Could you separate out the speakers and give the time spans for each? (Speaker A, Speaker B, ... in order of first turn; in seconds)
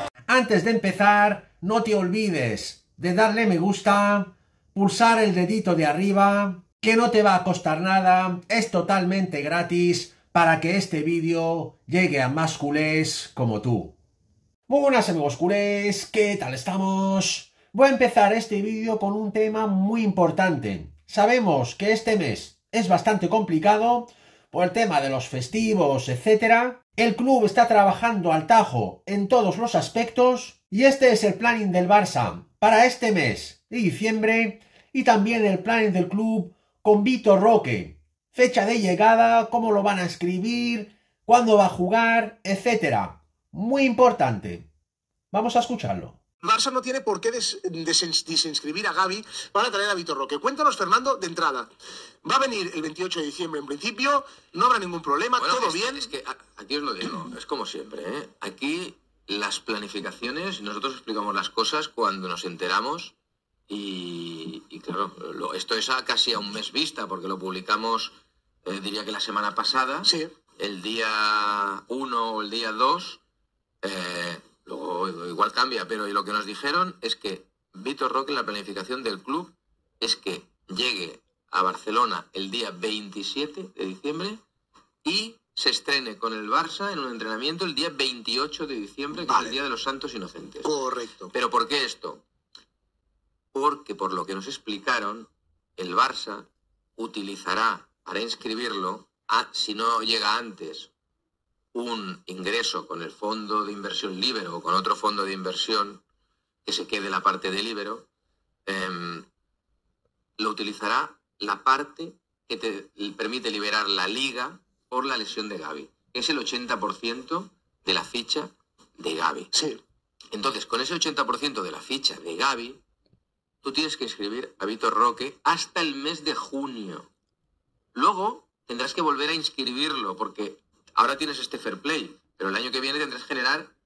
Speaker A: 0.3-13.9, 14.7-44.7, 45.3-46.2
Speaker B: 46.4-51.7, 52.2-56.1, 70.0-70.3, 89.3-89.5, 90.6-91.3, 119.5-119.8
Speaker C: 55.4-63.1, 63.7-68.1, 68.6-73.2, 73.8-84.4, 85.0-90.7, 91.3-92.2, 93.5-100.9, 101.7-106.0, 106.6-108.1, 108.7-109.3, 110.4-119.5, 120.3-122.8, 123.6-127.1, 127.9-133.7